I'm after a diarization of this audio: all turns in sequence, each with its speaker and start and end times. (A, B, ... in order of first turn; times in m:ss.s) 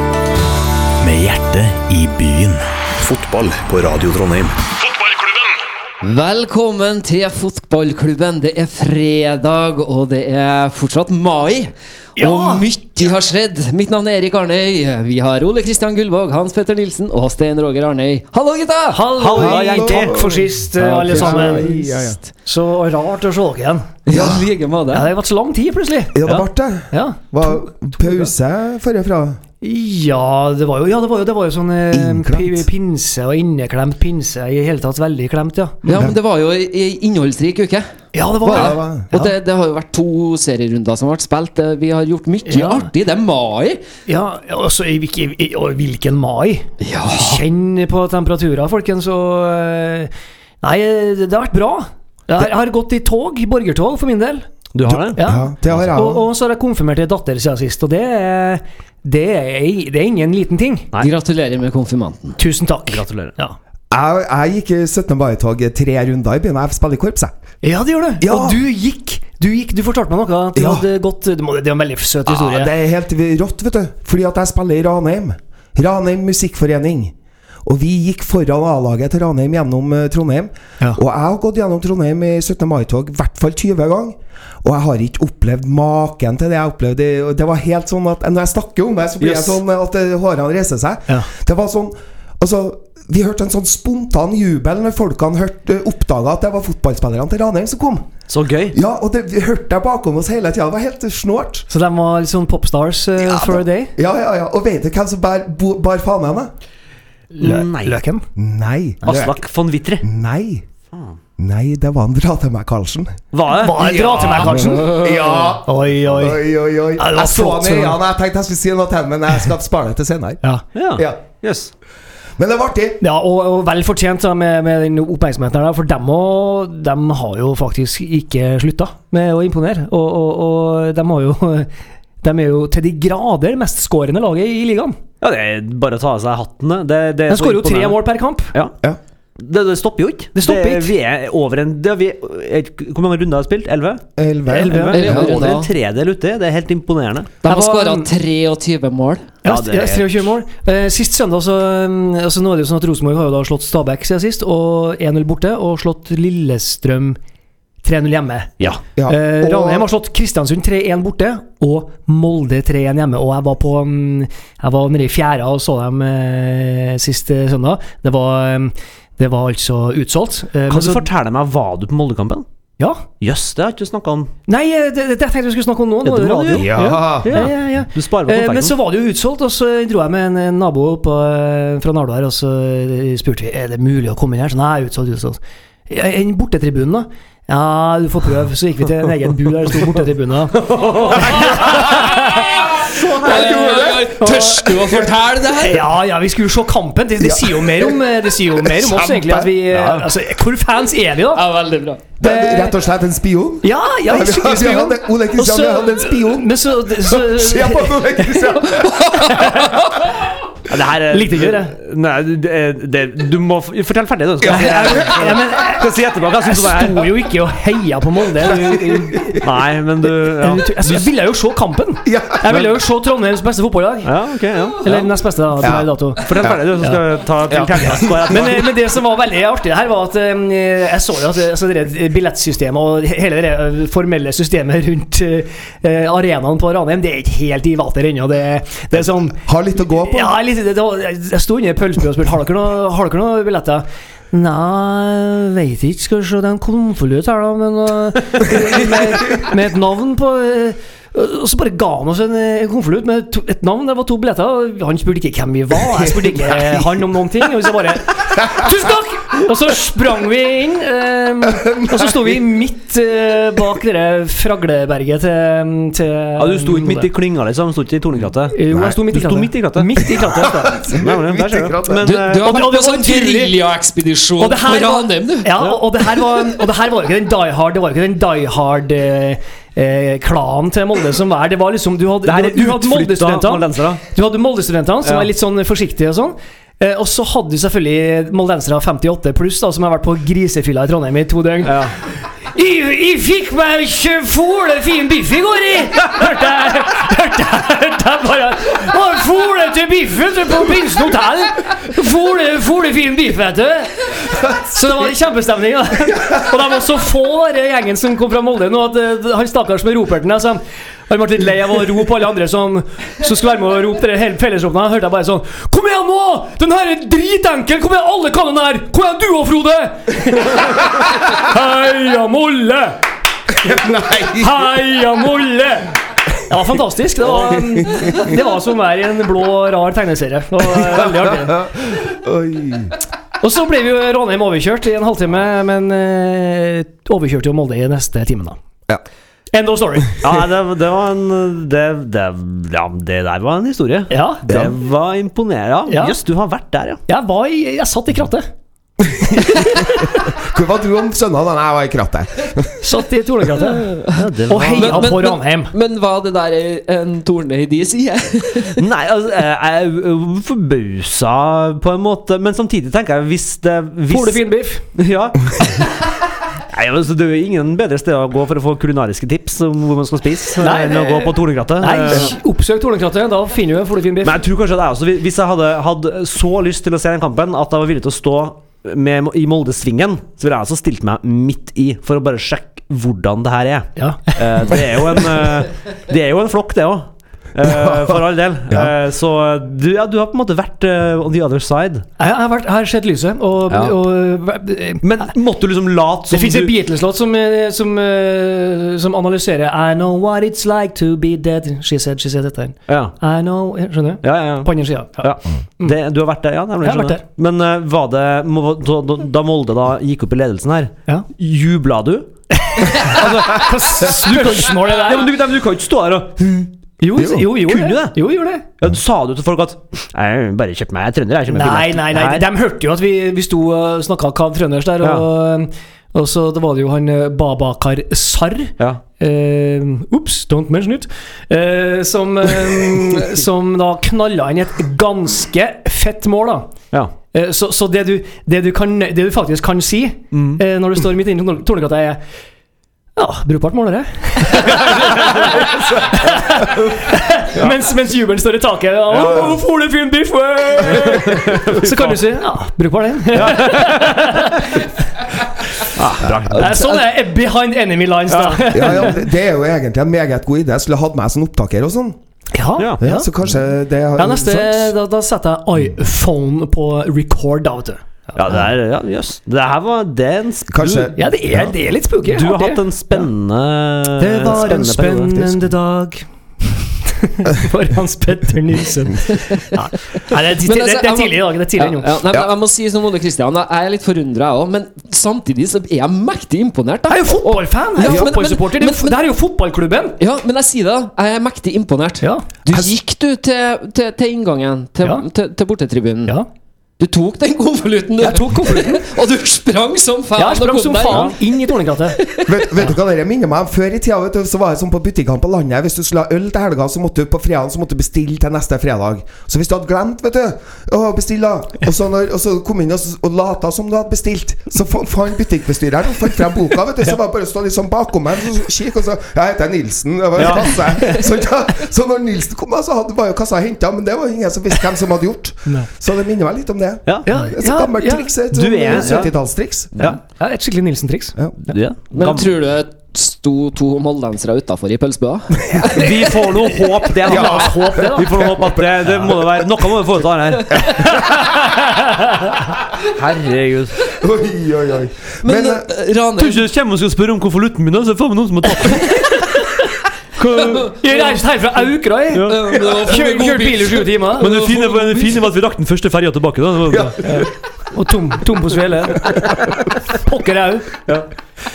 0:01.0-0:05.5 A
0:06.0-0:19.1 B
0:12.2-0:12.6 C
0:18.9-0:23.9 C
0:19.2-0:20.3 D
0:19.2-0:22.2 E
0:24.1-0:25.1 B
0:24.1-0:24.5 E
0:24.9-0:26.2 C
0:26.1-0:29.4 E
0:26.9-0:28.3 C
0:29.6-0:36.0 C
0:31.9-0:32.6 E
0:35.8-0:37.8 B
0:35.9-0:36.2 E
0:38.1-0:39.3 C
0:38.4-0:39.1 E
0:38.5-0:43.8 B
0:42.4-0:42.9 C
0:44.1-0:50.1 C
0:46.8-0:47.4 B
0:50.6-0:54.5 C
0:54.7-0:55.2 D
0:54.9-0:56.3 E
0:55.2-1:00.9 C
1:01.0-1:02.4 B
1:02.4-1:03.5 C
1:02.9-1:03.3 D
1:03.9-1:07.3 E
1:07.6-1:12.7 C
1:08.2-1:08.6 E
1:10.5-1:10.8 E
1:12.3-1:17.1 E
1:17.6-1:38.1 E
1:29.2-1:29.6 D
1:38.3-1:38.8 D
1:38.7-1:41.7 E
1:41.7-1:43.9 C
1:43.2-1:46.5 E
1:47.3-1:48.2 C
1:47.4-1:48.0 D
1:48.4-1:49.4 E
1:49.0-1:50.0 D
1:50.0-1:50.6 E
1:51.4-1:53.2 E
1:53.3-1:54.7 D
1:53.5-1:56.4 C
1:54.4-2:00.4 E
1:55.0-1:55.5 B
1:57.0-1:58.0 C
2:00.7-2:01.7 D
2:01.0-2:01.2 E
2:02.4-2:03.0 E
2:03.0-2:11.7 C
2:12.2-2:15.0 C
2:15.2-2:18.0 D
2:17.3-2:18.5 C
2:19.4-2:24.0 D
2:20.3-2:20.9 C
2:24.2-2:25.6 E
2:24.5-2:25.3 C
2:24.6-2:27.3 D
2:24.9-2:25.7 B
2:27.4-2:29.3 B
2:27.4-2:28.1 C
2:29.4-2:37.2 C
2:29.4-2:30.2 D
2:37.8-2:51.1 C
2:39.0-2:39.9 E
2:50.7-2:52.4 D
2:52.8-2:53.0 C
2:53.2-2:54.3 D
2:54.5-3:12.6 C
2:56.0-2:58.8 D
2:56.5-2:57.5 E
3:11.4-3:11.8 E
3:11.9-3:15.8 B
3:13.0-3:14.1 E
3:13.0-3:13.9 D
3:14.2-3:14.7 C
3:14.7-3:15.1 E
3:15.6-3:21.4 C
3:17.2-3:19.6 E
3:19.7-3:20.1 D
3:21.3-3:22.0 B
3:22.2-3:29.6 E
3:22.2-3:22.7 C
3:23.6-3:29.8 C
3:28.8-3:29.3 B
3:30.7-3:37.1 D
3:31.1-3:31.7 C
3:34.4-3:39.4 C
3:34.4-3:35.3 E
3:38.4-3:39.4 E
3:39.4-3:41.1 D
3:40.4-3:44.1 C
3:42.0-3:42.6 E
3:44.0-3:45.1 D
3:44.8-3:46.3 C
3:45.6-3:46.6 E
3:46.2-3:48.7 D
3:47.5-3:48.5 E
3:48.2-4:27.1 C
3:59.0-4:00.3 E
4:16.0-4:16.8 E
4:18.4-4:18.7 E
4:21.6-4:22.2 E
4:26.4-4:30.0 D
4:28.5-4:30.8 C
4:28.7-4:29.0 E
4:30.0-4:32.1 E
4:30.9-4:32.6 D
4:32.0-4:35.6 B
4:32.3-4:33.5 C
4:34.4-4:51.9 C
4:42.2-4:44.0 D
4:51.6-4:52.0 D
4:52.5-5:23.0 C
5:23.5-5:24.7 E
5:24.3-5:31.7 C
5:27.5-5:28.3 E
5:30.7-5:33.0 E
5:33.4-5:38.6 C
5:39.5-5:40.2 C
5:40.2-5:47.0 D
5:44.1-5:44.4 C
5:44.5-5:44.7 E
5:45.9-5:46.2 C
5:47.1-5:48.5 C
5:49.0-5:52.7 E
5:49.4-5:50.2 C
5:52.8-5:55.7 C
5:53.6-5:58.8 B
5:54.1-5:55.1 D
5:58.7-6:06.1 D
6:04.1-6:04.8 C
6:06.7-6:12.3 D
6:10.6-6:14.4 C
6:14.2-6:32.1 D
6:24.0-6:25.0 C
6:27.6-6:28.2 E
6:32.2-6:35.0 C
6:33.7-6:34.0 D
6:35.0-6:36.7 D
6:36.3-6:45.9 C
6:42.9-6:43.1 D
6:44.2-6:44.7 D
6:45.2-6:58.2 D
6:46.8-6:47.2 C
6:52.6-6:55.3 C
6:57.0-6:58.6 C
6:57.2-6:57.4 E
6:58.8-7:02.5 D
7:01.5-7:16.7 C
7:17.3-7:22.2 C
7:20.3-7:20.6 D
7:23.2-7:34.9 C
7:24.6-7:26.6 D
7:29.1-7:29.6 D
7:30.9-7:32.2 D
7:33.3-7:34.6 D
7:35.8-7:36.8 D
7:36.4-7:37.0 E
7:36.5-7:39.2 C
7:38.3-7:38.9 D
7:38.7-7:42.2 E
7:42.5-7:43.3 C
7:43.0-7:44.9 E
7:44.2-7:48.0 C
7:48.3-7:55.5 D
7:50.7-7:51.7 E
7:51.2-7:53.2 C
7:54.1-8:02.1 C
7:54.4-7:55.6 E
8:00.6-8:09.2 B
8:07.1-8:10.2 C
8:10.2-8:16.4 B
8:12.2-8:12.4 C
8:17.0-8:22.7 B
8:18.2-8:19.0 C
8:20.4-8:22.2 C
8:22.4-8:49.9 E
8:40.4-8:40.9 D
8:40.8-8:41.2 C
8:47.2-8:48.3 C
8:48.5-8:49.3 D
8:48.9-8:49.2 C
8:50.3-8:51.8 C
8:51.7-8:52.5 D
8:52.1-8:56.3 B
8:55.9-9:01.2 D
8:57.2-8:59.8 E
8:57.2-8:58.4 C
9:00.7-9:01.5 E
9:01.1-9:02.5 C
9:03.0-9:04.0 D
9:04.0-9:05.8 E
9:05.4-9:06.6 B
9:06.4-9:09.4 D
9:08.9-9:09.8 C
9:10.4-9:10.9 D
9:10.6-9:11.4 B
9:10.8-9:14.7 C
9:12.3-9:13.1 D
9:12.4-9:15.5 B
9:14.4-9:17.4 D
9:16.9-9:17.5 E
9:17.2-9:21.0 C
9:19.2-9:19.7 E